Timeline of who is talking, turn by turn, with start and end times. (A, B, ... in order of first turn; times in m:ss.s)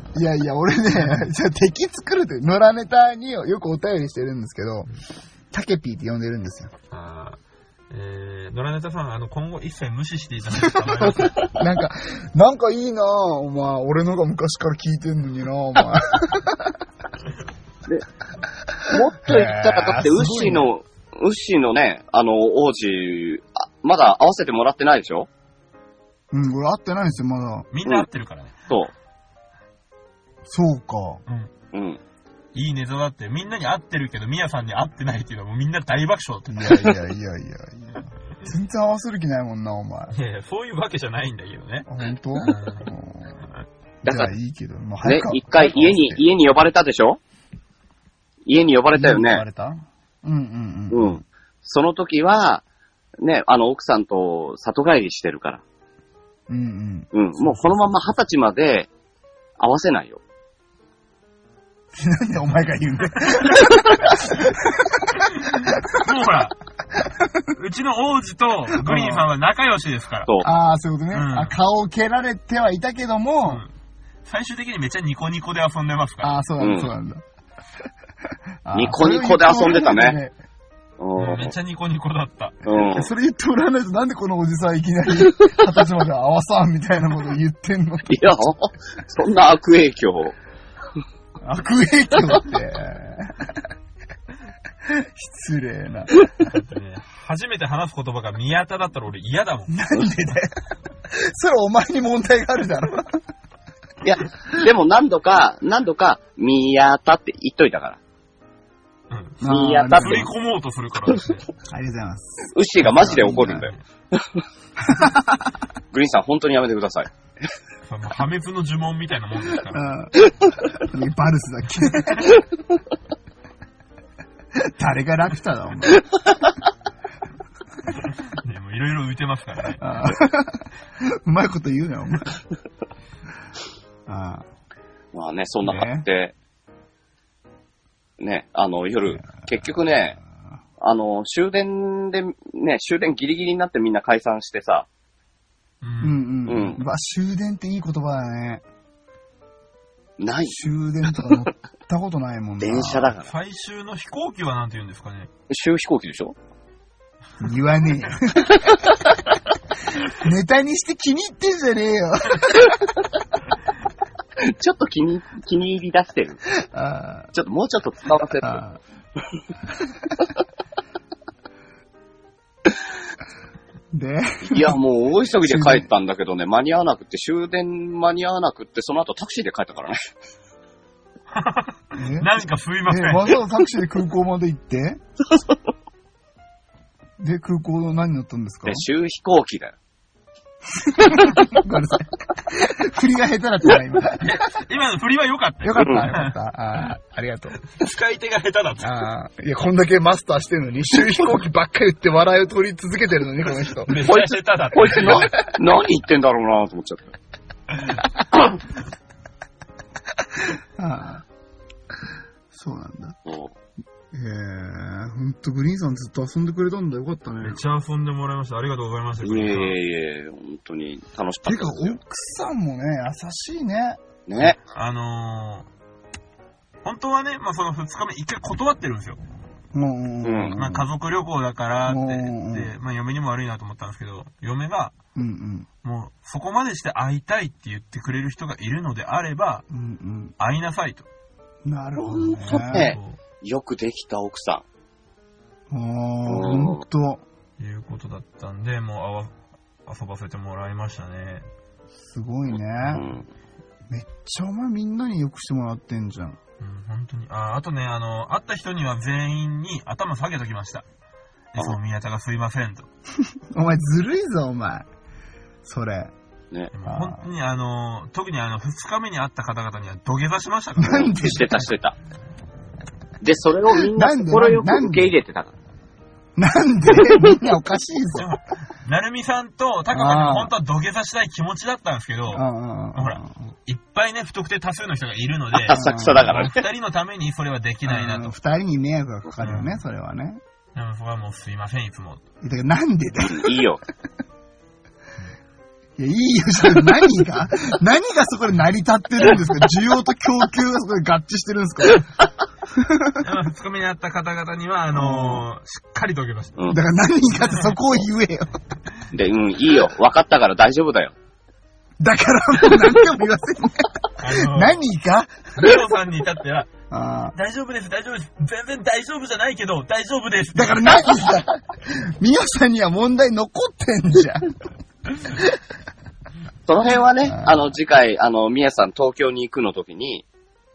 0:00.1-0:04.9 A
0:05.5-0:06.7 A
0:06.9-0:07.4 B
0:07.9-0:11.5 B
0:11.5-0:16.8 A
0:18.9-0:25.3 C
0:18.9-0:20.7 A
0:26.3-0:27.7 A
0:27.7-0:28.5 B
0:30.5-0:31.2 A
0:31.7-0:32.0 C
0:32.5-0:36.9 B
0:36.5-0:40.1 A
0:40.1-0:41.9 B
0:41.9-0:43.4 A
0:42.4-0:42.9 B
0:44.0-0:46.0 A
0:44.0-0:44.3 C
0:45.0-0:47.2 C
0:48.5-0:49.4 C
0:48.9-0:51.2 A
0:50.9-0:52.6 C
0:53.2-0:55.6 C
0:56.5-0:57.1 A
0:57.1-0:58.9 C
0:59.6-1:00.2 C
1:01.9-1:06.1 A
1:03.4-1:03.7 B
1:05.2-1:06.6 B
1:07.0-1:07.3 A
1:07.5-1:10.3 B
1:08.7-1:09.3 A
1:10.4-1:13.6 A
1:11.1-1:11.5 B
1:14.2-1:16.4 B
1:16.2-1:17.2 A
1:16.6-1:16.9 C
1:18.6-1:20.3 A
1:18.7-1:20.2 C
1:21.0-1:21.6 C
1:21.2-1:22.6 B
1:22.6-1:23.1 C
1:22.8-1:28.4 A
1:28.1-1:30.4 C
1:31.4-1:33.7 A
1:34.8-1:36.3 A
1:36.4-1:39.8 B
1:39.7-1:40.5 A
1:41.1-1:43.2 A
1:44.0-1:48.0 C
1:49.1-1:51.5 B
1:49.4-1:50.3 A
1:49.4-1:50.3 C
1:51.6-1:53.7 A
1:52.5-1:54.4 C
1:52.8-1:53.6 B
1:54.8-1:55.6 A
1:55.9-1:57.1 C
1:57.9-2:00.0 B
1:59.7-2:00.2 A
2:00.7-2:02.4 A
2:04.5-2:06.1 A
2:08.3-2:09.8 B
2:09.8-2:12.4 A
2:14.1-2:14.4 A
2:15.1-2:16.3 C
2:15.6-2:16.1 A
2:18.2-2:20.2 C
2:20.8-2:24.9 C
2:25.8-2:26.2 B
2:26.0-2:28.6 A
2:26.5-2:26.8 C
2:30.2-2:30.6 C
2:30.5-2:33.1 A
2:32.6-2:33.3 C
2:33.2-2:35.3 B
2:35.5-2:36.4 C
2:37.4-2:39.0 A
2:40.1-2:42.9 A
2:44.4-2:46.4 C
2:46.5-2:47.3 A
2:47.3-2:48.6 C
2:48.4-2:48.8 A
2:53.9-2:54.8 A
2:54.4-3:00.0 C
2:55.4-2:55.9 A
3:01.3-3:03.4 B
3:02.0-3:05.0 A
3:05.3-3:05.6 C
3:07.2-3:08.9 A
3:08.7-3:09.8 C
3:10.8-3:14.3 A
3:11.2-3:11.4 C
3:14.2-3:16.4 B
3:15.6-3:17.6 A
3:15.8-3:16.1 C
3:17.8-3:19.1 B
3:18.8-3:24.0 A
3:23.8-3:25.4 B
3:24.0-3:27.1 C
3:30.6-3:31.2 A
3:32.5-3:33.2 A
3:33.3-3:33.5 C
3:34.1-3:37.6 A
3:37.4-3:39.8 B
3:39.2-3:42.0 C
3:41.4-3:44.0 A
3:44.3-3:44.6 C
3:44.4-3:45.7 B
3:46.8-3:49.2 B
3:49.7-3:50.9 A
3:50.2-3:50.6 C
3:50.5-3:55.0 B
3:51.9-3:52.7 A
3:55.2-3:55.7 A
3:55.8-3:59.7 B
3:59.7-4:00.4 A
4:00.4-4:01.1 B
4:01.6-4:02.9 A
4:02.0-4:04.6 C
4:02.4-4:03.2 B
4:05.7-4:07.2 A
4:06.3-4:06.8 C
4:07.6-4:09.3 B
4:09.9-4:11.4 B
4:12.0-4:13.1 A
4:12.9-4:13.3 C
4:13.9-4:16.4 A
4:16.6-4:20.8 B
4:21.5-4:22.9 B
4:23.5-4:24.9 A
4:25.6-4:26.1 A
4:26.7-4:31.1 B
4:26.9-4:27.2 A
4:30.8-4:31.7 A
4:30.8-4:32.0 C
4:33.2-4:35.5 C
4:33.8-4:35.1 A
4:36.4-4:38.3 A
4:38.1-4:48.3 B
4:39.9-4:40.5 A
4:42.3-4:43.4 A
4:45.5-4:46.6 C
4:45.7-4:46.4 A
4:47.9-4:50.4 A
4:49.4-4:49.8 B
4:50.8-4:52.2 B
4:52.4-4:53.6 A
4:53.2-4:53.8 C
4:56.0-5:02.1 A
5:02.7-5:03.3 A
5:03.2-5:06.6 B
5:04.9-5:05.5 A
5:06.7-5:08.6 A
5:07.4-5:07.8 B
5:09.1-5:11.1 C
5:12.0-5:15.7 A
5:14.2-5:14.8 B
5:15.6-5:16.7 B
5:16.9-5:17.4 A
5:17.4-5:21.4 B
5:20.5-5:24.5 A
5:25.3-5:25.6 A
5:26.7-5:30.2 C
5:27.2-5:27.6 A